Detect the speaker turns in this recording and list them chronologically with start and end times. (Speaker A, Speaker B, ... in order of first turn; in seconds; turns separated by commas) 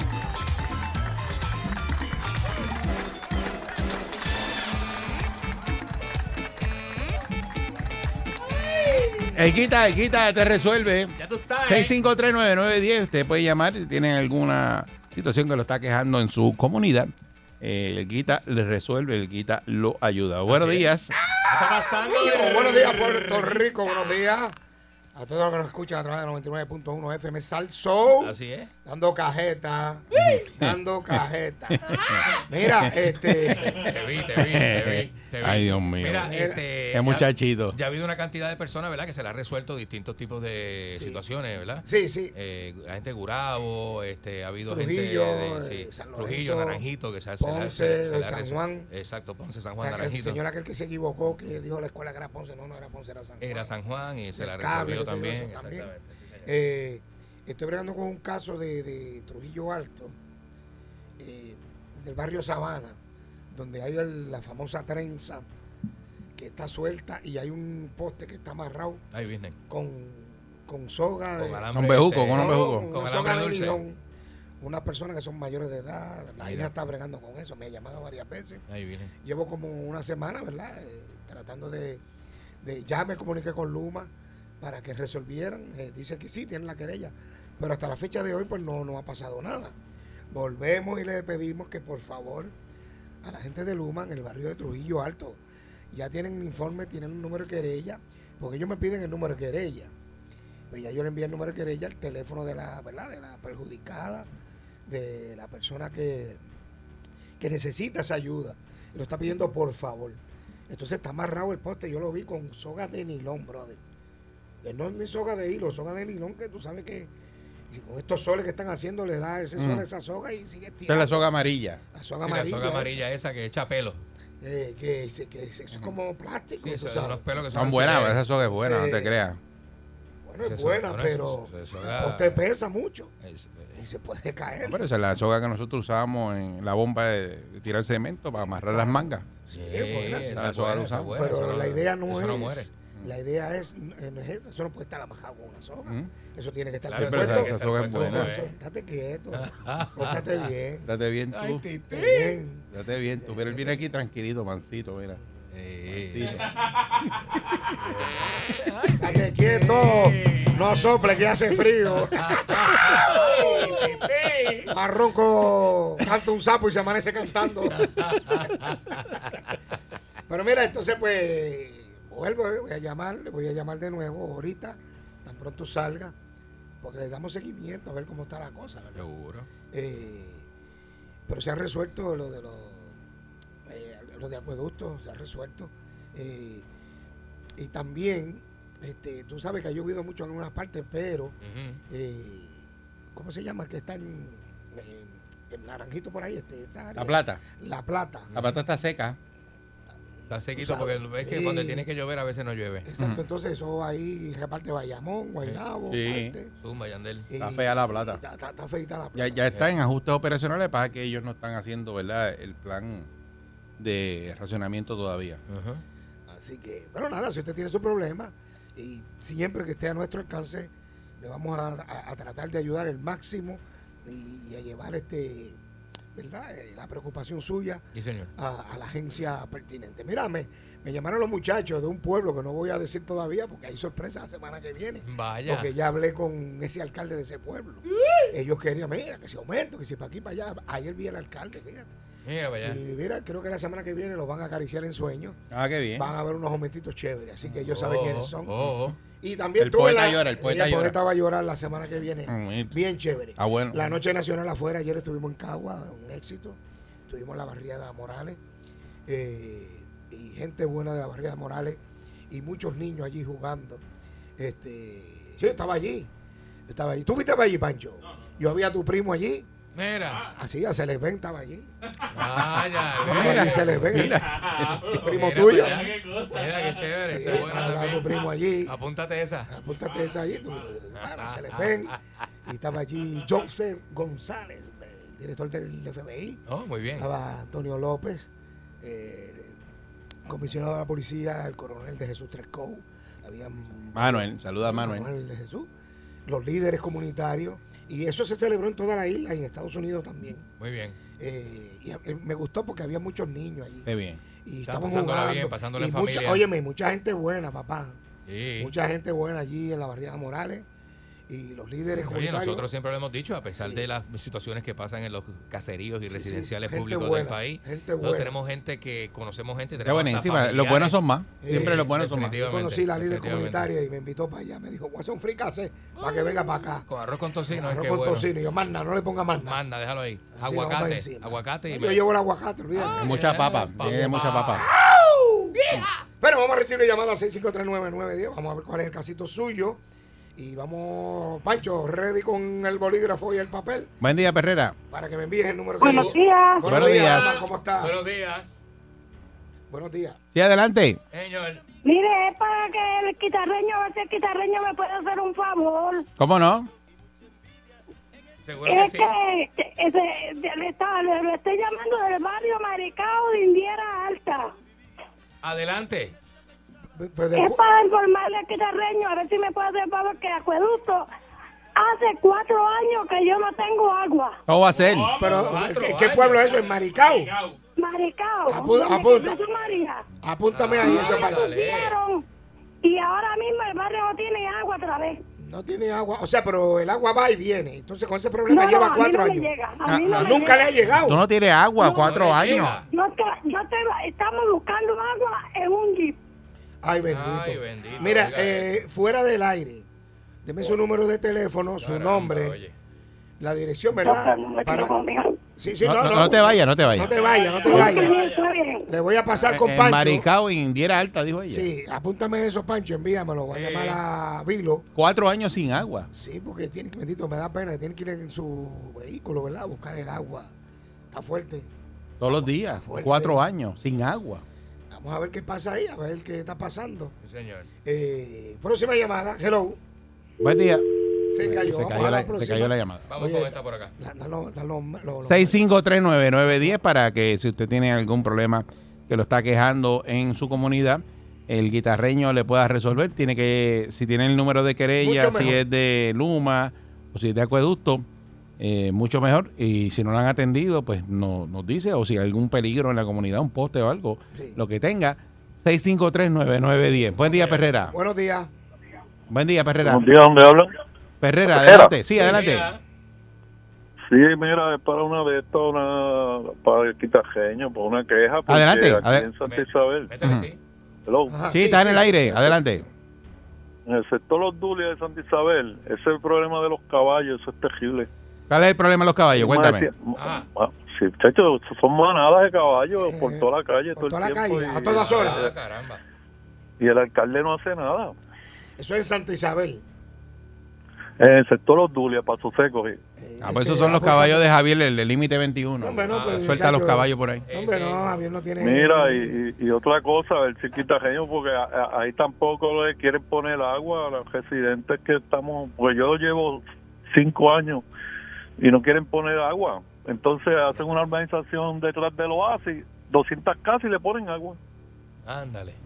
Speaker A: 9.2-21.1, Speaker B: 11.1-11.9, Speaker B: 20.5-20.9, Speaker B: 21.5-23.6, Speaker C: 21.7-24.6, Speaker C: 25.1-33.9, Speaker B: 28.2-28.7, Speaker A: 30.1-33.5, Speaker B: 33.6-50.4, Speaker A: 34.2-36.3, Speaker C: 36.2-36.6, Speaker A: 36.9-37.8, Speaker C: 40.9-41.2, Speaker C: 41.8-42.3, Speaker C: 44.7-46.8, Speaker C: 47.4-48.9, Speaker C: 49.8-53.7, Speaker B: 53.4-56.5, Speaker C: 54.3-55.9, Speaker C: 56.4-60.1, Speaker C: 61.2-63.0, Speaker C: 63.5-65.4, Speaker C: 66.4-69.0, Speaker B: 69.1-69.5, Speaker C: 69.7-71.7, Speaker B: 71.4-73.8, Speaker A: 71.7-72.9, Speaker C: 72.3-74.0, Speaker C: 74.6-78.6, Speaker B: 76.4-76.7, Speaker B: 78.7-79.1, Speaker C: 79.2-82.0, Speaker C: 82.6-89.7, Speaker C: 90.3-92.5, Speaker C: 93.2-95.4, Speaker C: 95.9-99.9, Speaker C: 100.7-104.3, Speaker C: 104.9-106.4, Speaker C: 107.4-113.8, Speaker C: 114.6-117.1, Speaker C: 117.7-121.3, Speaker A: 119.6-119.8, Speaker A: 120.9-121.8, Speaker C: 121.9-123.0, Speaker B: 122.2-124.0, Speaker C: 124.4-127.6, Speaker B: 126.6-128.2, Speaker A: 127.5-129.4, Speaker C: 128.5-129.2, Speaker C: 130.2-133.1, Speaker B: 130.4-132.4, Speaker B: 133.2-133.9, Speaker C: 133.7-134.8, Speaker A: 134.6-139.3, Speaker C: 138.7-140.6, Speaker B: 139.5-142.7, Speaker A: 140.1-141.3, Speaker C: 141.1-150.9, Speaker A: 145.8-146.1, Speaker B: 146.9-148.5, Speaker A: 146.9-148.3, Speaker B: 149.3-150.5, Speaker A: 150.8-151.6, Speaker B: 151.3-152.4, Speaker C: 151.9-152.7, Speaker A: 152.7-155.2, Speaker C: 153.2-153.8, Speaker B: 155.5-156.5, Speaker A: 155.9-156.5, Speaker B: 157.7-161.1, Speaker C: 159.0-163.8, Speaker B: 161.9-164.7, Speaker C: 164.7-168.1, Speaker B: 167.7-169.3, Speaker C: 170.3-176.1, Speaker C: 176.8-179.1, Speaker B: 178.9-179.5, Speaker C: 179.7-180.4, Speaker C: 181.3-182.9, Speaker C: 183.7-186.7, Speaker C: 187.6-191.3, Speaker B: 191.4-191.8, Speaker C: 191.9-192.6, Speaker C: 193.1-198.3, Speaker A: 196.9-197.4, Speaker B: 198.3-198.6, Speaker A: 198.3-199.2, Speaker B: 200.3-202.9, Speaker C: 200.5-201.9, Speaker C: 202.8-206.5, Speaker A: 203.0-203.2, Speaker A: 205.9-206.4, Speaker B: 206.6-207.3, Speaker C: 207.3-209.5, Speaker A: 207.3-208.2, Speaker A: 209.1-213.1, Speaker A: 213.8-215.4, Speaker B: 215.5-215.8, Speaker C: 216.3-225.6, Speaker C: 226.1-241.9, Speaker B: 227.9-228.3, Speaker B: 235.0-235.7, Speaker B: 242.2-242.8, Speaker C: 242.6-245.4, Speaker A: 245.5-246.1, Speaker C: 245.9-256.6, Speaker B: 247.7-248.9, Speaker A: 249.6-251.0, Speaker A: 252.2-252.8, Speaker A: 253.3-253.9, Speaker C: 257.1-258.4, Speaker C: 259.1-263.8, Speaker C: 264.4-266.1, Speaker C: 266.7-269.5, Speaker B: 269.7-270.3, Speaker C: 270.3-271.7, Speaker B: 272.1-274.1, Speaker A: 273.0-274.8, Speaker C: 273.1-274.2, Speaker C: 274.8-275.9, Speaker B: 274.9-279.5, Speaker C: 277.0-278.7, Speaker C: 279.5-281.9, Speaker B: 280.9-282.0, Speaker C: 282.5-286.4, Speaker B: 286.5-287.1, Speaker C: 286.9-288.3, Speaker C: 288.8-289.6, Speaker C: 290.2-295.7, Speaker A: 293.9-295.1, Speaker C: 296.2-300.4, Speaker B: 300.6-301.0, Speaker C: 301.2-303.9, Speaker A: 303.8-304.2, Speaker C: 304.4-308.0, Speaker B: 304.6-306.4, Speaker B: 308.3-308.7, Speaker C: 308.6-310.6, Speaker C: 311.3-312.7, Speaker B: 312.0-323.7, Speaker C: 313.6-313.9, Speaker C: 316.1-318.4, Speaker A: 319.8-322.4, Speaker C: 321.4-326.9, Speaker B: 326.0-328.3, Speaker C: 327.5-329.6, Speaker B: 329.4-332.1, Speaker C: 330.3-339.8, Speaker A: 332.8-334.7, Speaker B: 332.8-334.7, Speaker C: 340.4-343.9, Speaker A: 344.0-344.8, Speaker C: 344.9-348.0, Speaker D: 345.8-347.3, Speaker B: 345.8-346.1, Speaker A: 346.6-347.5, Speaker B: 346.7-348.6, Speaker C: 349.7-350.2, Speaker A: 350.3-351.0, Speaker B: 351.1-351.6, Speaker D: 351.8-356.1, Speaker A: 356.2-356.7, Speaker B: 358.4-359.1, Speaker D: 358.6-364.5, Speaker B: 365.4-366.1, Speaker C: 366.9-367.6, Speaker D: 367.3-371.1, Speaker D: 371.8-374.4, Speaker A: 374.5-375.2, Speaker B: 374.8-377.5, Speaker C: 375.1-377.3, Speaker D: 377.8-380.0, Speaker C: 378.4-379.4, Speaker C: 380.2-381.6, Speaker B: 380.5-382.0, Speaker D: 381.0-382.2, Speaker D: 382.8-385.2, Speaker C: 385.4-391.2, Speaker D: 388.5-390.9, Speaker A: 389.9-392.8, Speaker D: 391.8-396.2, Speaker B: 392.0-392.9, Speaker C: 396.8-399.9, Speaker B: 397.1-398.9, Speaker C: 400.4-402.6, Speaker B: 401.8-402.7, Speaker C: 403.4-405.0, Speaker D: 404.0-405.3, Speaker C: 405.6-408.2, Speaker A: 405.8-407.1, Speaker B: 407.1-408.4, Speaker D: 407.5-408.9, Speaker C: 408.9-410.3, Speaker A: 409.4-411.7, Speaker C: 411.5-414.9, Speaker B: 413.5-414.0, Speaker A: 414.9-416.1, Speaker C: 416.1-420.5, Speaker C: 421.1-421.7, Speaker A: 422.2-424.4, Speaker C: 422.7-423.5, Speaker C: 424.9-427.1, Speaker B: 427.2-427.7, Speaker C: 427.8-429.8, Speaker A: 430.4-433.0, Speaker C: 431.3-435.6, Speaker B: 433.1-433.9, Speaker A: 435.2-448.1, Speaker C: 445.0-445.6, Speaker A: 448.6-457.9, Speaker C: 454.3-454.6, Speaker B: 457.3-457.7, Speaker C: 457.9-458.5, Speaker A: 459.3-460.1, Speaker E: 459.8-460.7, Speaker A: 461.2-462.7, Speaker E: 461.5-461.9, Speaker C: 462.2-462.4, Speaker B: 462.2-462.8, Speaker E: 464.1-470.1, Speaker A: 468.5-469.3, Speaker B: 469.4-470.6, Speaker A: 470.2-470.5, Speaker E: 471.1-471.5, Speaker C: 471.3-472.2, Speaker A: 471.5-472.9, Speaker E: 473.9-478.1, Speaker A: 478.5-479.9, Speaker E: 479.3-485.6, Speaker B: 480.2-480.5, Speaker C: 483.0-485.4, Speaker B: 484.9-486.0, Speaker E: 486.8-488.1, Speaker C: 488.8-489.8, Speaker E: 491.2-493.0, Speaker C: 493.2-494.5, Speaker A: 493.4-497.4, Speaker C: 495.8-499.4, Speaker B: 496.1-496.6, Speaker B: 497.5-498.3, Speaker E: 498.6-506.6, Speaker E: 507.1-507.8, Speaker E: 508.6-514.6, Speaker B: 515.2-515.8